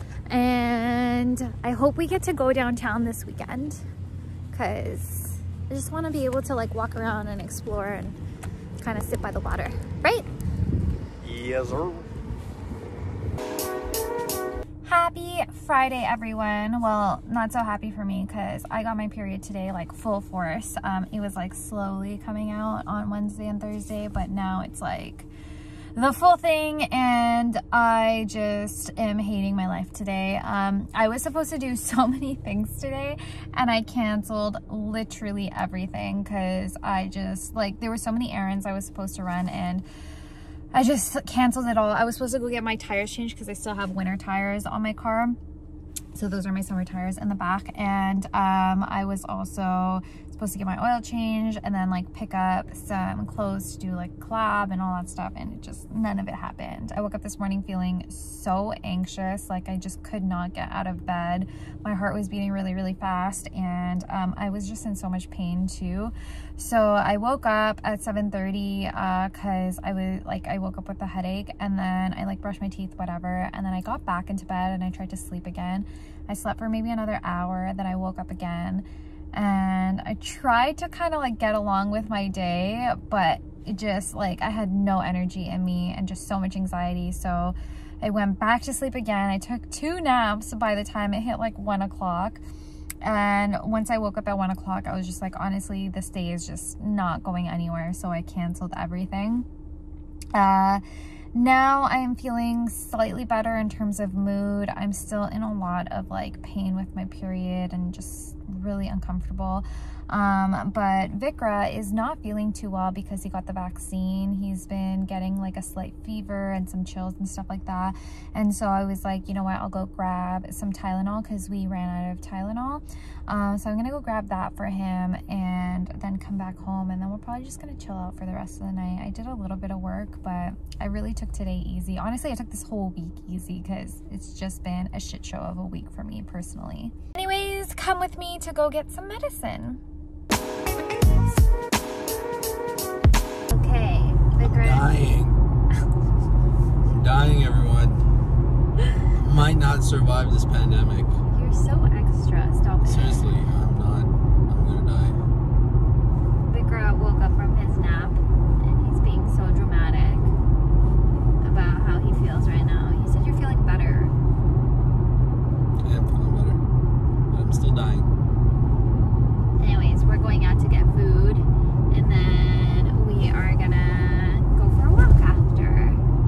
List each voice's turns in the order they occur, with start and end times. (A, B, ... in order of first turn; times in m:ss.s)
0:00.3-0:03.8 A
0:04.5-0:08.2 A
0:08.8-0:10.3 A
0:11.2-0:12.0 B
0:14.8-0:25.3 A
0:26.0-0:39.8 A
0:40.7-0:45.4 A
0:46.1-1:32.4 A
1:33.0-1:39.5 A
1:40.3-2:19.8 A
2:23.5-2:25.0 A
2:24.4-2:25.4 B
2:26.8-2:28.0 B
2:29.1-2:31.1 B
2:31.3-2:33.3 A
2:32.8-2:35.2 B
2:36.5-2:40.3 A
2:41.4-2:44.1 A
2:45.8-2:46.6 B
2:47.3-2:48.1 B
2:49.6-2:56.0 A